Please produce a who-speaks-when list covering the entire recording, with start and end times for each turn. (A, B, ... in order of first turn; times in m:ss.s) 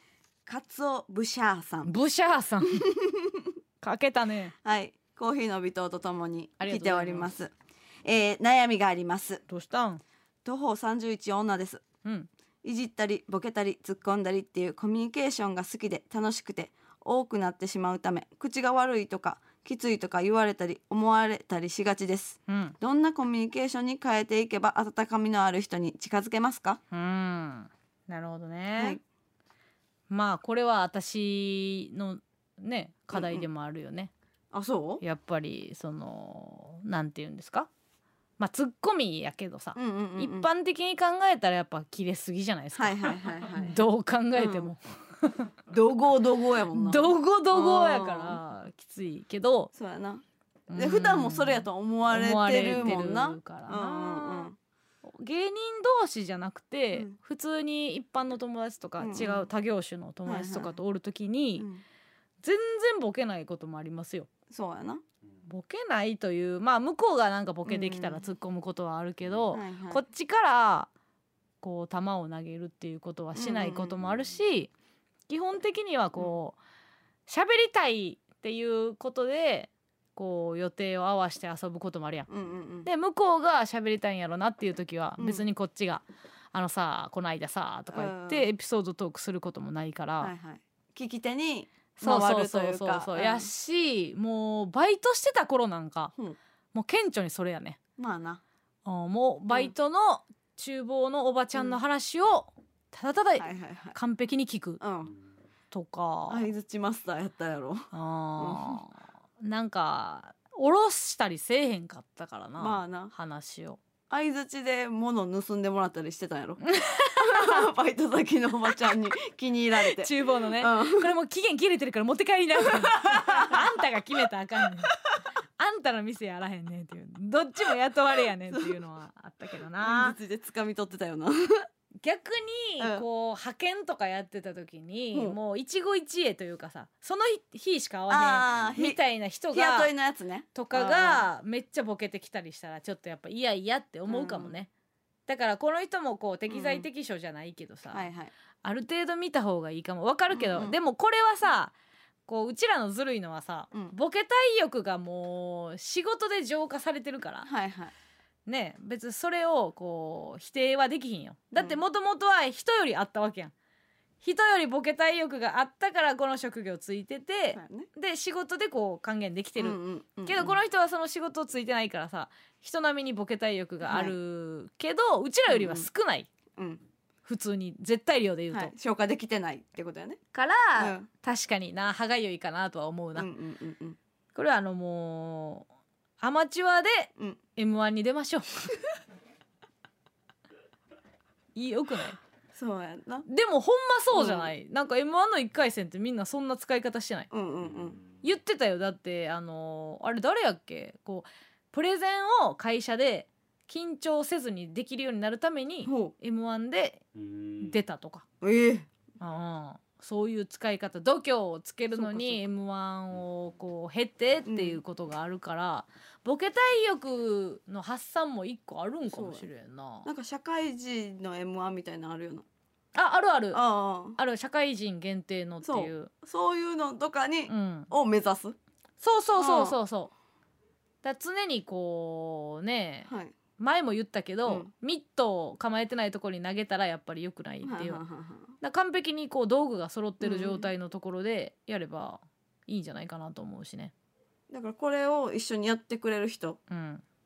0:00.5-0:01.9 A
0:01.9-0:02.9 B
0:02.8-0:03.5 A
0:03.8-0:04.6 B
0:04.6-0:07.5 A
0:06.6-0:07.3 B
0:08.0-0:09.4 A
0:09.5-0:10.0 B
0:10.4-0:11.8 A
0:12.6-0:26.8 A
0:22.5-0:22.8 B
0:26.9-0:29.0 B
0:30.1-0:34.1 B
0:33.2-0:33.4 A
0:34.5-0:35.0 A
0:35.0-0:37.7 B
0:38.4-0:45.5 B
0:39.8-0:40.5 A
0:42.8-0:43.8 A
0:44.4-0:44.7 A
0:45.7-0:48.4 A
0:46.7-0:49.7 B
0:49.7-0:50.2 A
0:50.7-0:54.5 B
0:50.8-0:54.6 A
0:55.0-1:01.7 B
0:59.0-0:59.5 A
1:00.2-1:00.8 A
1:01.6-1:01.8 A
1:02.4-1:04.3 B
1:04.5-1:05.0 A
1:05.5-1:10.9 B
1:07.7-1:08.2 A
1:09.5-1:10.0 A
1:11.6-1:14.7 B
1:13.4-1:14.0 A
1:15.3-1:16.6 B
1:17.3-1:22.3 B
1:22.3-1:22.9 A
1:22.8-1:30.3 B
1:25.2-1:25.4 A
1:27.9-1:28.5 A
1:30.2-1:33.5 A
1:32.0-1:36.1 B
1:36.7-1:37.8 B
1:38.0-1:38.4 A
1:38.8-1:44.8 B
1:43.4-1:44.0 A
1:44.8-1:45.2 A
1:45.7-1:46.5 B
1:46.3-1:48.8 A
1:47.9-1:53.8 B
1:52.6-1:53.1 A
1:54.1-1:56.6 A
1:56.6-1:57.7 B
1:57.1-2:01.1 A
1:59.8-2:05.0 B
2:02.6-2:03.6 A
2:05.6-2:10.2 B
2:08.5-2:08.8 A
2:09.8-2:11.7 A
2:12.0-2:19.9 B
2:12.8-2:13.0 A
2:18.1-2:19.0 A
2:19.5-2:21.3 A
2:20.6-2:24.7 B
2:24.1-2:24.6 A
2:25.3-2:28.0 B
2:26.5-2:26.9 A
2:27.9-2:28.3 A
2:28.6-2:31.7 B
2:30.3-2:30.8 A
2:32.3-2:37.5 B
2:37.4-2:37.9 A
2:38.5-2:43.5 B
2:41.6-2:41.8 A
2:44.2-2:56.3 B
2:47.6-2:47.9 A
2:49.6-2:50.6 A
2:53.8-2:54.2 A
2:55.5-2:55.9 A
2:56.6-2:56.8 A
2:57.2-2:58.7 B
2:58.5-3:00.2 A
3:00.3-3:03.3 B
3:00.8-3:01.1 A
3:03.2-3:04.0 A
3:04.4-3:05.7 B
3:06.2-3:08.7 B
3:11.6-3:12.2 B
3:12.5-3:13.3 A
3:13.3-3:17.3 B
3:14.1-3:14.5 A
3:17.3-3:18.0 A
3:18.2-3:28.2 B
3:25.8-3:26.2 A
3:28.4-3:28.9 A
3:29.2-3:40.1 B
3:31.9-3:32.4 A
3:34.5-3:34.8 A
3:39.1-3:39.5 A
3:40.0-3:42.4 A
3:43.0-3:43.6 B
3:43.5-3:44.2 A
3:44.2-3:46.1 B
3:45.6-3:48.6 A
3:47.5-3:47.9 B
3:49.0-3:50.1 B
3:49.4-3:49.8 A
3:51.0-3:58.0 B
3:53.1-3:53.4 A
3:57.6-3:58.6 A
3:58.6-4:03.9 B
4:00.2-4:00.7 A
4:04.5-4:06.6 A
4:06.7-4:07.0 B